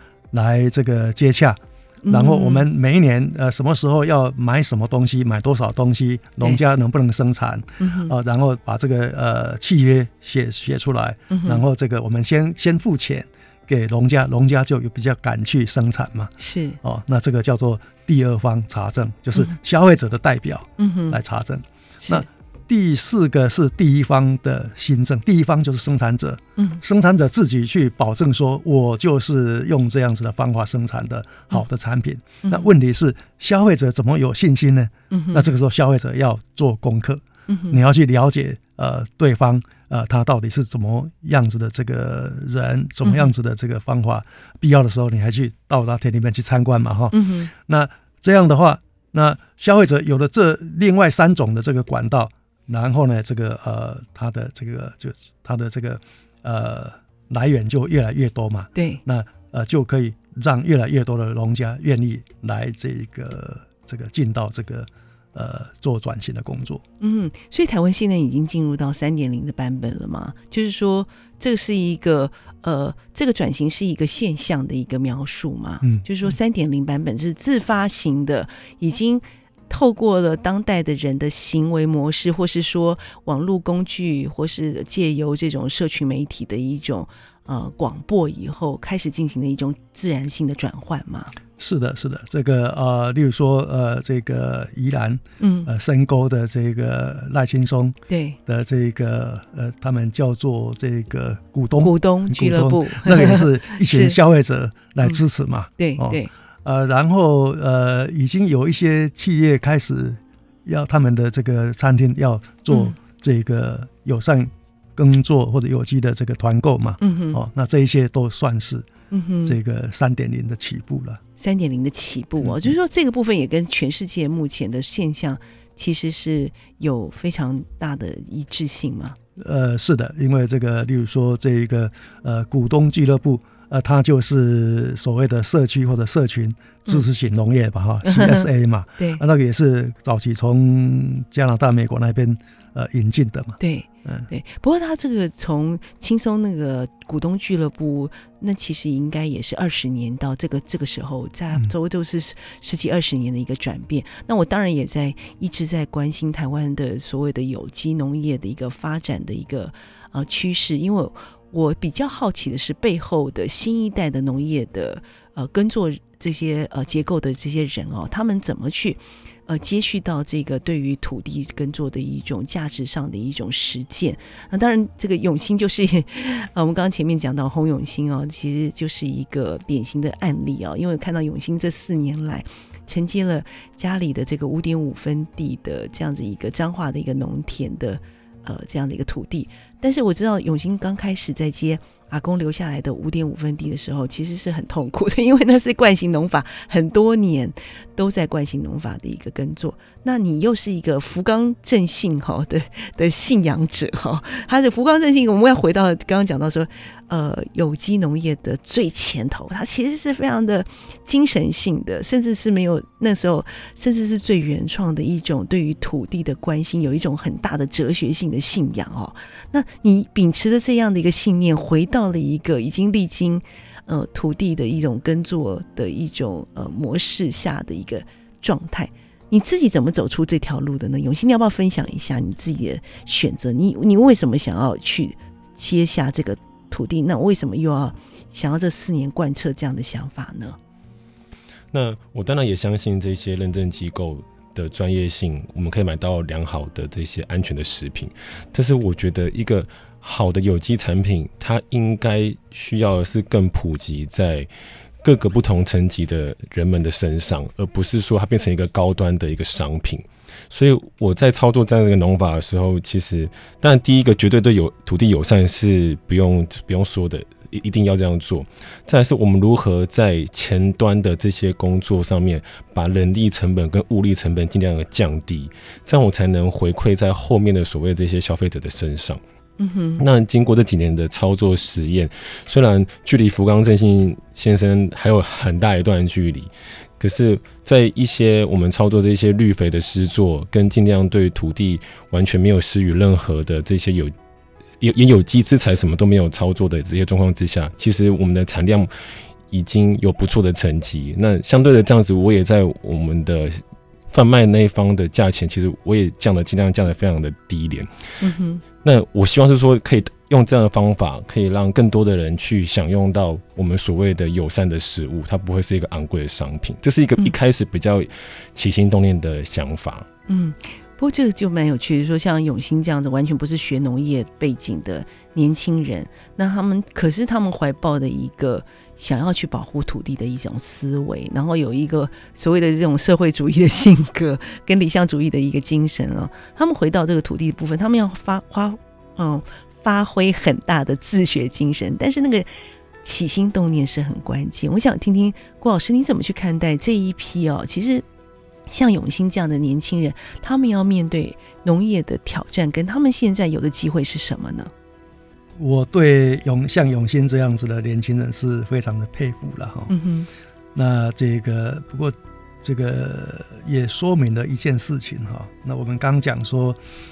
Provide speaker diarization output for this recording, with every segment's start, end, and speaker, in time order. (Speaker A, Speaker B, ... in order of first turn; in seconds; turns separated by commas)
Speaker A: 0.3-66.8, Speaker B: 2.0-2.7, Speaker B: 7.8-8.1, Speaker B: 11.3-11.6, Speaker B: 16.4-16.8, Speaker B: 20.8-21.2, Speaker B: 35.1-35.5, Speaker B: 37.5-37.8, Speaker B: 47.1-47.5, Speaker B: 58.8-59.0, Speaker B: 67.0-91.3, Speaker A: 75.8-76.3, Speaker A: 91.6-118.9, Speaker B: 95.4-95.7, Speaker B: 98.1-98.4, Speaker B: 101.8-104.2, Speaker B: 105.8-106.3, Speaker B: 112.7-113.0, Speaker B: 117.0-117.4, Speaker B: 119.1-119.6, Speaker A: 119.4-121.2, Speaker B: 121.4-129.2, Speaker A: 122.4-122.7, Speaker A: 129.4-144.3, Speaker B: 138.0-139.2, Speaker B: 143.6-240.6, Speaker C: 241.7-254.5, Speaker C: 255.0-279.2, Speaker B: 279.6-280.0, Speaker C: 280.0-294.1, Speaker C: 294.8-298.9, Speaker C: 299.5-308.1, Speaker B: 308.2-308.6, Speaker C: 308.8-320.1, Speaker B: 320.3-342.5, Speaker B: 343.0-348.1, Speaker B: 348.7-354.7, Speaker A: 355.6-359.9, Speaker B: 359.9-360.3, Speaker A: 360.8-366.8